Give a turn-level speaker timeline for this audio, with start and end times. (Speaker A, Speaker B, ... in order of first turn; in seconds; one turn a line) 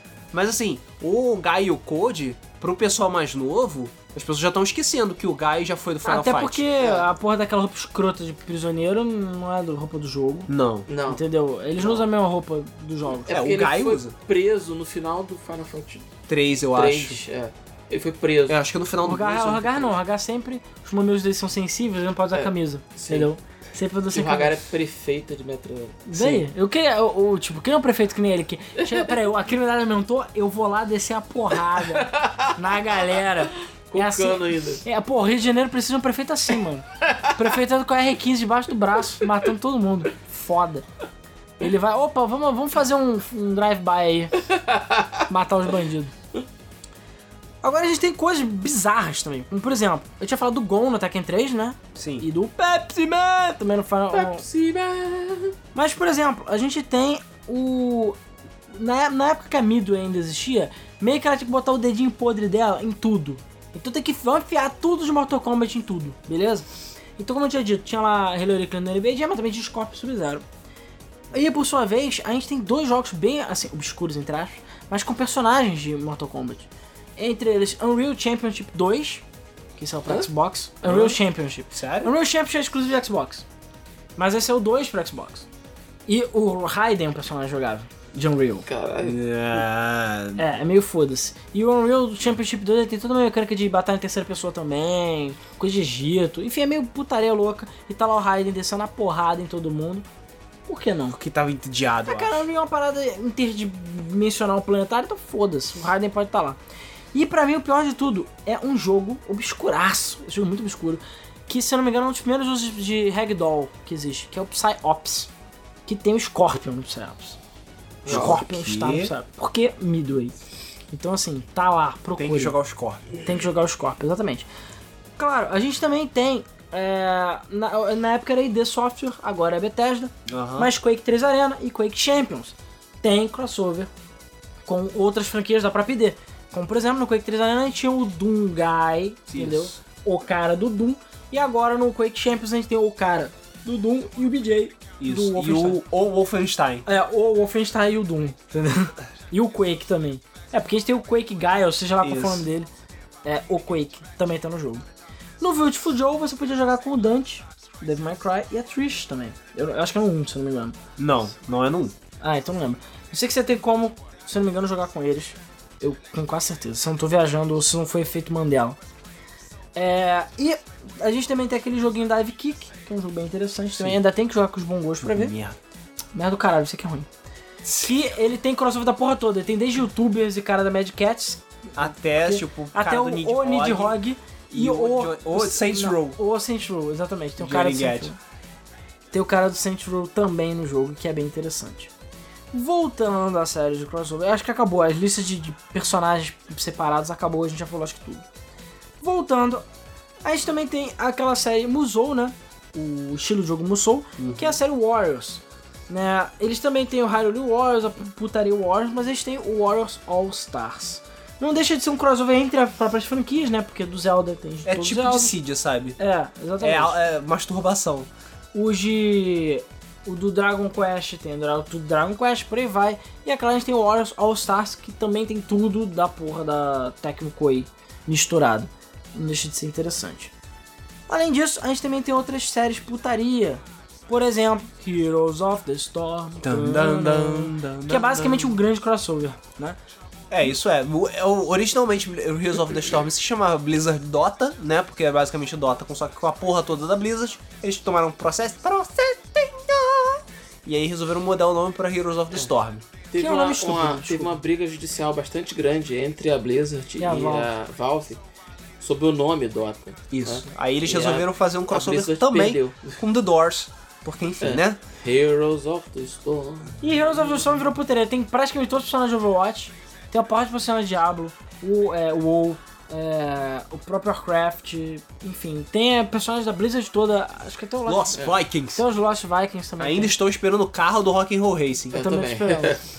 Speaker A: 0.3-6.7
Speaker B: 6.0-10.5
Speaker C: 6.8-7.0
Speaker A: 10.5-10.9
Speaker C: 10.9-11.2
Speaker B: 11.1-13.3
Speaker C: 11.8-12.1
Speaker C: 13.2-16.1
Speaker A: 13.3-14.1
Speaker A: 16.3-17.2
Speaker C: 16.7-18.6
Speaker A: 18.5-19.6
Speaker B: 19.0-24.6
Speaker C: 19.4-19.9
Speaker C: 22.3-23.3
Speaker C: 24.1-26.4
Speaker B: 26.1-40.9
Speaker C: 28.8-29.1
Speaker C: 31.7-33.0
Speaker C: 33.9-34.8
Speaker B: 41.6-44.4
Speaker C: 44.5-45.1
Speaker B: 45.3-46.1
Speaker B: 47.6-54.4
Speaker A: 52.0-52.3
Speaker C: 54.1-55.5
Speaker B: 55.7-58.2
Speaker B: 58.7-66.7
Speaker B: 67.2-70.5
Speaker B: 71.3-79.2
Speaker B: 79.8-83.5
Speaker A: 80.8-81.2
Speaker A: 81.7-82.1
Speaker B: 84.2-85.5
Speaker B: 86.1-88.7
Speaker C: 88.7-89.2
Speaker A: 89.0-90.4
Speaker B: 90.4-100.1
Speaker B: 100.7-101.2
Speaker A: 101.1-102.5
Speaker B: 102.1-106.6
Speaker B: 107.1-115.3
Speaker B: 115.9-117.4
Speaker C: 118.0-118.4
Speaker A: 118.1-119.1
Speaker B: 118.1-120.3
Speaker B: 120.9-122.6
Speaker A: 122.2-123.1
Speaker B: 123.2-124.5
Speaker B: 125.2-133.9
Speaker A: 130.3-130.7
Speaker B: 134.7-145.8
Speaker A: 139.3-139.8
Speaker A: 145.0-146.8
Speaker B: 146.9-152.7
Speaker A: 152.0-152.5
Speaker B: 153.2-154.8
Speaker B: 155.4-160.8
Speaker A: 161.0-161.9
Speaker B: 162.2-168.8
Speaker B: 169.8-175.3
Speaker A: 175.0-175.6
Speaker B: 176.1-177.1
Speaker A: 177.6-177.9
Speaker B: 177.8-188.2
Speaker A: 181.8-184.0
Speaker A: 184.5-186.2
Speaker A: 187.4-188.1
Speaker B: 189.1-191.9
Speaker B: 192.5-198.2
Speaker B: 199.0-199.7
Speaker B: 200.2-215.4
Speaker A: 204.2-204.6
Speaker A: 214.7-216.0
Speaker B: 216.0-217.0
Speaker A: 216.6-218.1
Speaker B: 218.5-230.3
Speaker B: 231.1-239.8
Speaker A: 236.4-238.6
Speaker A: 240.3-252.8
Speaker C: 253.1-258.2
Speaker B: 253.2-254.4
Speaker B: 257.0-257.5
Speaker C: 258.8-263.0
Speaker A: 260.1-264.8
Speaker C: 264.4-266.8
Speaker B: 266.8-280.1
Speaker A: 277.9-278.8
Speaker A: 279.8-282.0
Speaker C: 281.9-282.8
Speaker B: 281.9-282.8